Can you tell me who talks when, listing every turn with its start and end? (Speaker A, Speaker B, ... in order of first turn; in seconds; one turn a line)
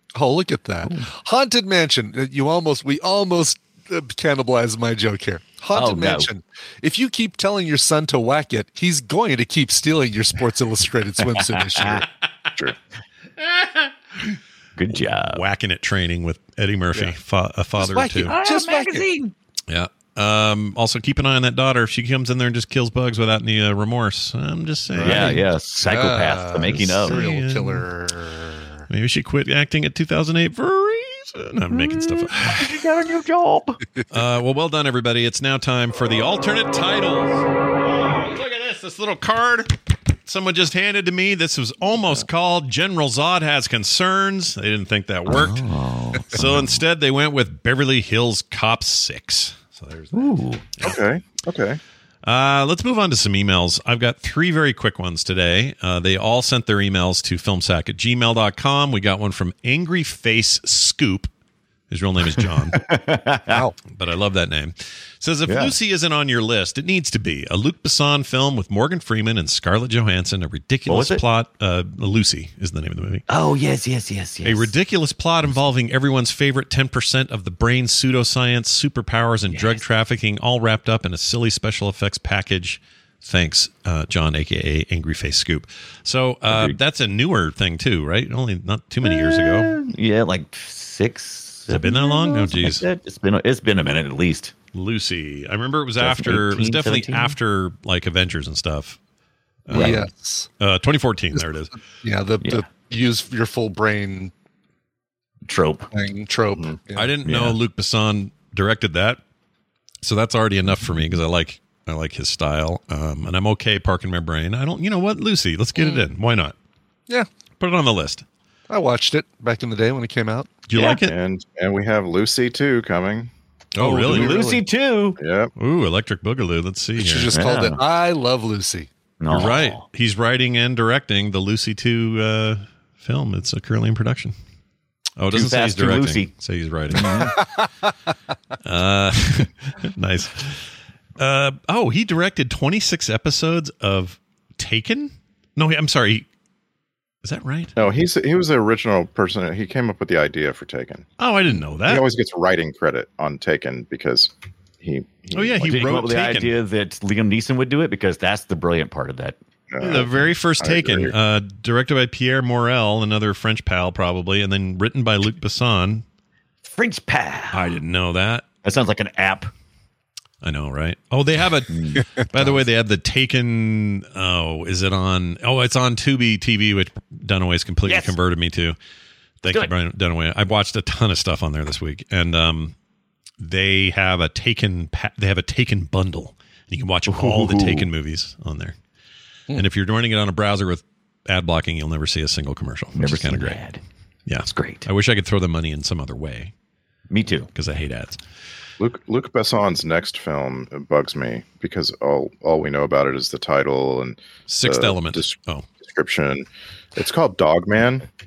Speaker A: 0.1-12.1
Speaker B: 5.7-6.3
Speaker B: 11.7-12.1
Speaker C: 13.5-13.8
Speaker B: 14.8-15.4
Speaker C: 15.3-18.3
Speaker A: 17.8-19.1
Speaker B: 18.3-19.3
Speaker C: 19.7-25.4
Speaker B: 25.0-27.2
Speaker A: 25.0-28.9
Speaker C: 26.7-27.9
Speaker C: 28.9-32.8
Speaker B: 31.7-33.8
Speaker C: 34.1-45.6
Speaker B: 45.3-46.8
Speaker C: 46.3-51.0
Speaker B: 50.1-50.7
Speaker D: 50.8-51.8
Speaker C: 52.2-61.3
Speaker C: 61.9-62.8
Speaker B: 62.3-63.6
Speaker A: 63.5-63.8
Speaker C: 63.9-73.2
Speaker B: 65.5-65.8
Speaker B: 70.9-71.2
Speaker B: 73.3-74.7
Speaker C: 74.4-89.7
Speaker B: 79.5-79.8
Speaker B: 86.5-86.8
Speaker B: 89.0-94.5
Speaker C: 91.7-92.8
Speaker C: 94.7-99.0
Speaker B: 96.0-97.4
Speaker C: 99.7-100.0
Speaker B: 99.7-100.0
Speaker A: 99.7-100.5
Speaker C: 100.6-101.7
Speaker A: 102.0-104.3
Speaker B: 105.5-105.9
Speaker A: 105.9-107.1
Speaker C: 107.0-109.2
Speaker B: 107.2-107.6
Speaker C: 110.0-116.5
Speaker B: 110.7-111.2
Speaker C: 117.6-118.2
Speaker A: 118.7-120.5
Speaker C: 120.7-121.2
Speaker B: 120.7-121.0
Speaker D: 121.0-123.3
Speaker C: 123.8-124.4
Speaker A: 123.8-124.6
Speaker B: 124.0-125.2
Speaker D: 125.2-125.5
Speaker C: 125.6-127.3
Speaker A: 127.0-128.9
Speaker B: 127.3-127.8
Speaker B: 129.2-129.8
Speaker C: 129.3-134.3
Speaker C: 135.2-137.4
Speaker B: 135.3-136.3
Speaker B: 136.9-137.4
Speaker A: 137.4-137.7
Speaker C: 138.6-140.7
Speaker C: 141.2-146.3
Speaker C: 147.2-147.7
Speaker D: 147.8-151.1
Speaker C: 151.2-152.1
Speaker D: 151.8-155.9
Speaker C: 155.3-156.5
Speaker B: 155.6-159.4
Speaker D: 159.7-161.2
Speaker C: 159.8-166.1
Speaker B: 166.6-167.8
Speaker C: 167.5-168.5
Speaker B: 168.6-169.5
Speaker C: 170.4-178.8
Speaker B: 171.7-172.0
Speaker B: 177.8-178.2
Speaker C: 179.4-182.8
Speaker C: 183.4-188.8
Speaker B: 187.1-187.9
Speaker C: 189.5-193.6
Speaker B: 192.9-193.8
Speaker C: 194.3-196.5
Speaker B: 194.5-194.9
Speaker B: 197.1-197.5
Speaker C: 197.5-198.2
Speaker D: 198.8-208.1
Speaker C: 204.5-205.7